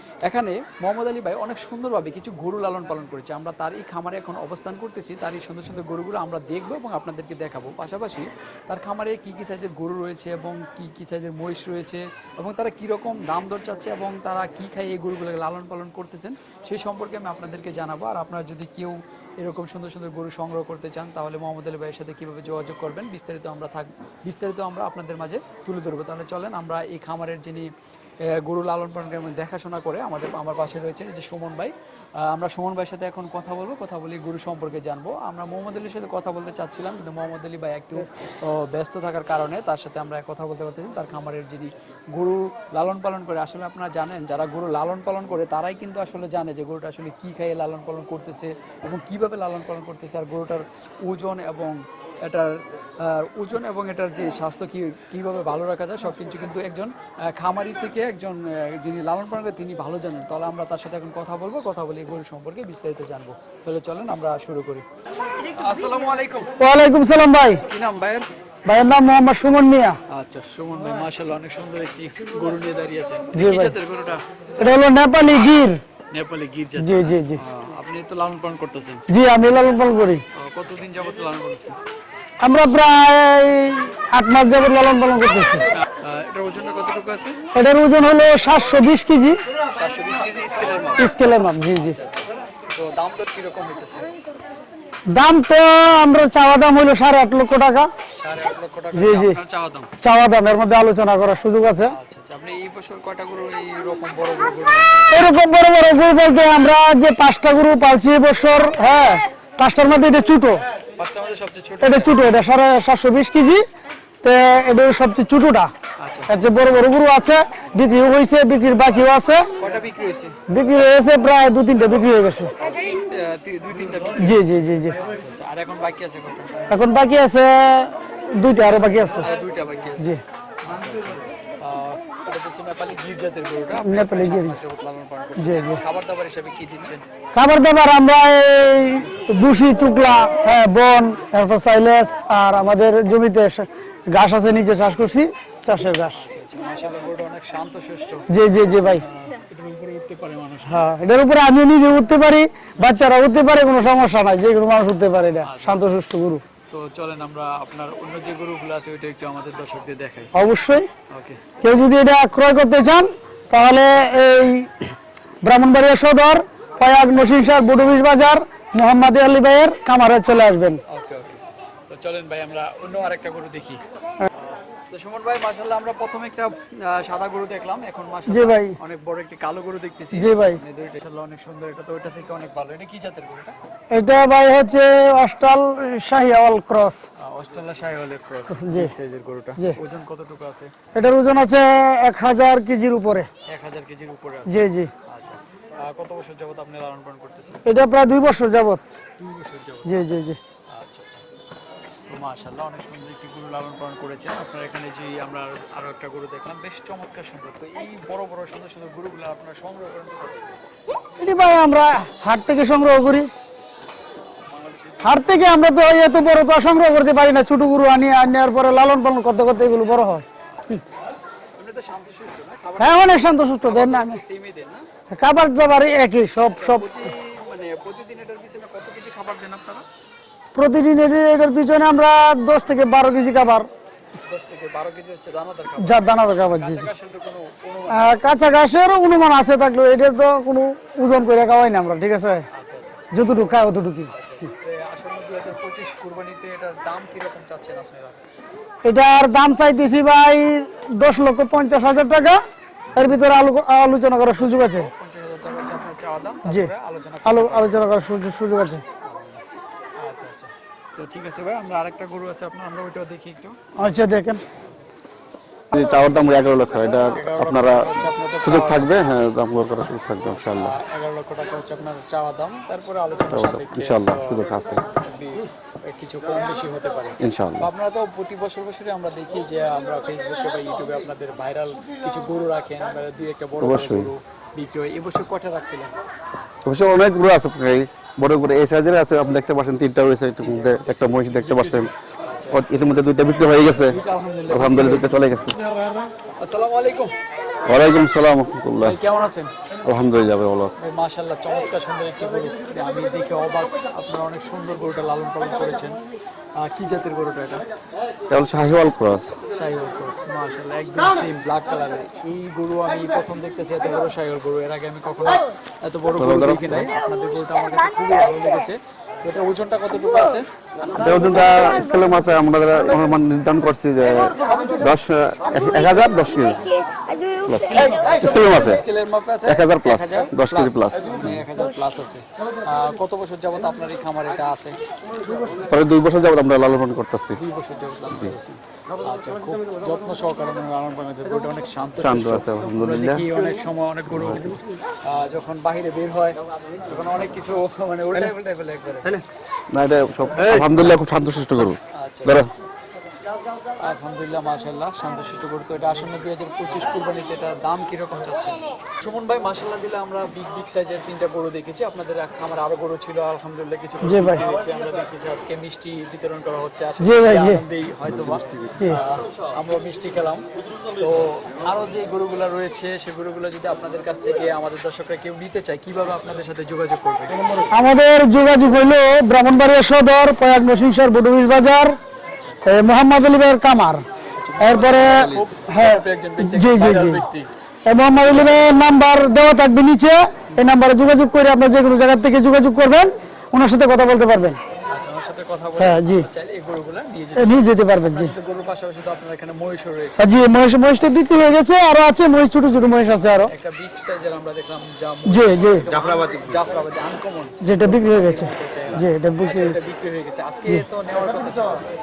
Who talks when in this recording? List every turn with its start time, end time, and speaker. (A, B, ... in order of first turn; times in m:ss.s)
0:00.2-0:27.7 A
0:28.2-1:04.8 A
1:05.4-1:06.5 A
1:06.6-1:07.6 B
1:07.7-1:08.3 A
1:08.7-1:10.0 B
1:10.1-1:14.2 A
1:13.3-1:13.8 B
1:14.6-1:15.8 B
1:16.1-1:19.0 A
1:16.8-1:17.4 B
1:19.1-1:20.2 B
1:20.3-1:21.8 A
1:22.4-1:25.6 B
1:25.7-1:27.4 A
1:27.6-1:29.4 B
1:29.7-1:34.1 A
1:31.0-1:32.0 B
1:35.1-1:37.9 B
1:38.1-1:39.9 A
1:38.9-1:39.4 B
1:40.0-1:41.9 B
1:41.8-1:45.3 A
1:45.1-1:50.6 B
1:51.0-1:52.3 A
1:51.8-1:53.6 B
1:54.2-1:55.7 B
1:56.0-1:56.4 A
1:56.3-1:59.5 B
1:59.6-2:00.4 A
2:00.5-2:02.5 B
2:02.6-2:06.7 A
2:04.2-2:05.0 B
2:06.7-2:09.2 B
2:09.1-2:17.0 A
2:13.8-2:14.6 B
2:15.4-2:15.8 B
2:17.3-2:26.2 B
2:26.1-2:28.2 A
2:28.3-2:29.0 B
2:28.8-2:30.8 A
2:30.7-2:36.4 B
2:35.4-2:35.8 A
2:36.7-2:40.3 A
2:40.3-2:40.9 B
2:41.1-2:41.5 A
2:41.6-2:44.9 B
2:45.4-2:50.8 B
2:50.9-2:53.8 A
2:54.3-3:03.6 A
2:58.3-2:58.8 B
3:00.1-3:00.6 B
3:03.9-3:07.0 B
3:07.2-3:10.7 A
3:08.5-3:08.9 B
3:10.9-3:13.3 B
3:13.5-3:17.6 A
3:14.5-3:14.9 B
3:17.7-3:18.8 B
3:19.2-3:21.2 A
3:19.8-3:20.4 B
3:22.1-3:30.6 A
3:31.2-3:33.3 B
3:34.3-3:35.4 A
3:35.0-3:40.2 B
3:40.6-3:40.8 A
3:41.6-3:44.9 A
3:42.8-3:44.2 B
3:45.1-3:46.9 B
3:46.4-3:49.8 A
3:50.6-3:53.7 B
3:54.2-3:58.3 A
3:55.8-3:56.9 B
3:57.9-4:02.4 B
4:02.5-4:03.3 A
4:03.1-4:04.1 B
4:04.1-4:08.2 A
4:08.8-4:12.4 B
4:12.9-4:14.9 B
4:14.4-4:18.0 A
4:16.5-4:16.7 B
4:17.2-4:18.8 B
4:19.0-4:19.5 A
4:20.0-4:23.6 A
4:23.8-4:24.4 B
4:25.7-4:30.8 C
4:27.1-4:28.9 A
4:30.4-4:46.0 A
4:33.3-4:34.8 C
4:37.2-4:37.7 C
4:43.6-4:44.1 C
4:46.6-4:51.9 C
4:50.4-4:52.7 A
4:52.5-4:55.6 C
4:53.6-4:55.4 A
4:56.4-4:57.1 A
4:57.7-4:59.0 C
4:58.8-4:59.5 A
4:59.8-5:00.8 C
5:00.8-5:06.0 A
5:06.6-5:07.6 A
5:08.3-5:09.3 C
5:09.4-5:20.4 A
5:16.2-5:16.9 C
5:20.9-5:26.8 C
5:27.4-5:28.8 C
5:27.8-5:34.8 A
5:29.4-5:31.4 C
5:35.7-5:37.4 C
5:37.4-5:49.2 A
5:42.0-5:43.3 C
5:44.1-5:44.6 C
5:49.7-5:52.5 C
5:51.9-5:52.5 A
5:53.8-6:17.6 A
6:04.0-6:04.4 B
6:07.0-6:07.6 B
6:17.7-6:22.0 B
6:22.6-6:24.0 B
6:24.4-6:27.5 A
6:24.6-6:27.2 B
6:27.9-6:34.6 B
6:34.9-6:40.4 A
6:35.8-6:36.3 B
6:37.4-6:38.3 B
6:40.2-6:43.5 B
6:43.4-6:51.9 A
6:45.3-6:46.0 B
6:47.6-6:49.8 B